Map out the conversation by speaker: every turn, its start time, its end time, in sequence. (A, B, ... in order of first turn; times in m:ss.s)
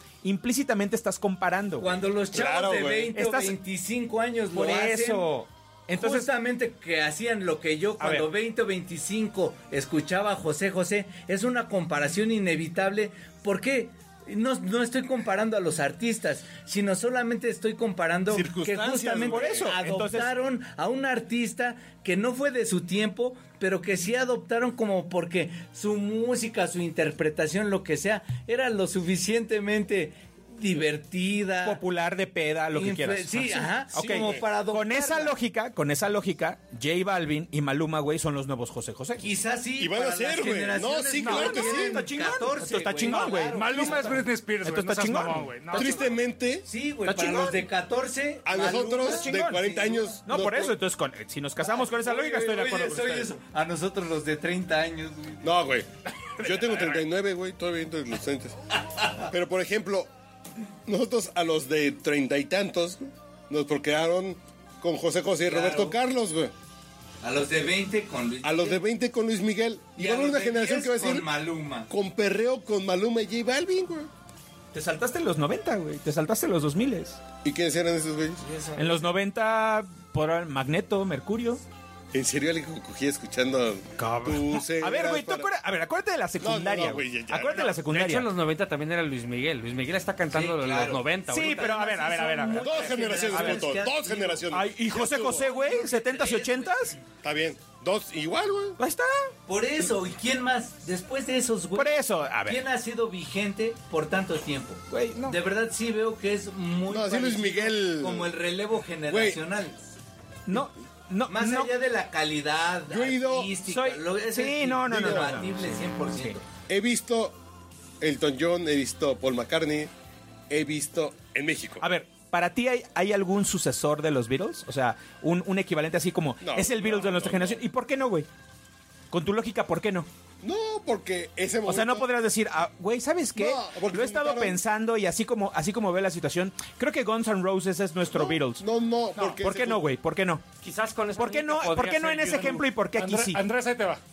0:00.2-0:01.9 A
0:01.8-0:05.3 B
0:02.3-0:03.1 C
0:03.2-0:03.6 A
0:04.5-0:06.3 A
0:05.9-0:31.8 B
0:08.0-0:08.3 A
0:18.3-0:19.7 C
0:19.2-0:20.3 A
0:31.6-0:39.2 A
0:32.7-0:35.3 B
0:34.0-0:34.4 C
0:39.2-0:44.2 B
0:39.8-0:42.1 C
0:41.2-0:46.1 A
0:43.0-0:46.1 D
0:45.7-0:46.6 C
0:46.7-0:49.5 B
0:47.0-0:47.6 A
0:48.4-0:50.8 C
0:48.9-0:53.3 A
0:51.6-0:55.5 B
0:55.4-0:58.6 C
0:59.3-1:00.1 C
1:00.8-1:06.5 C
1:05.5-1:06.0 B
1:07.2-1:08.8 B
1:08.4-1:11.3 C
1:10.0-1:11.9 B
1:11.9-1:14.1 C
1:14.7-1:17.2 A
1:17.4-1:18.4 C
1:18.4-1:19.0 B
1:18.8-1:21.6 A
1:22.1-1:25.5 C
1:24.0-1:28.3 A
1:26.4-1:27.8 C
1:27.8-1:31.6 E
1:30.3-1:34.4 B
1:31.3-1:33.6 A
1:32.6-1:35.5 C
1:34.5-1:37.0 A
1:35.4-1:36.6 B
1:37.2-1:38.8 C
1:38.8-1:39.3 A
1:39.5-1:49.8 B
1:41.7-1:42.6 A
1:44.9-1:45.4 A
1:46.9-1:48.3 C
1:49.1-1:49.4 C
1:50.5-1:51.7 A
1:51.3-1:56.4 B
1:52.9-1:53.5 C
1:53.7-1:56.4 A
1:54.9-1:55.3 C
1:56.7-1:57.4 C
1:58.0-1:59.9 C
2:00.5-2:01.8 C
2:01.8-2:08.3 A
2:06.4-2:07.6 C
2:09.1-2:10.1 A
2:10.4-2:12.1 C
2:11.6-2:18.6 A
2:13.4-2:14.6 C
2:18.1-2:19.9 C
2:19.4-2:20.4 A
2:20.6-2:22.6 E
2:21.2-2:23.4 A
2:23.0-2:24.0 D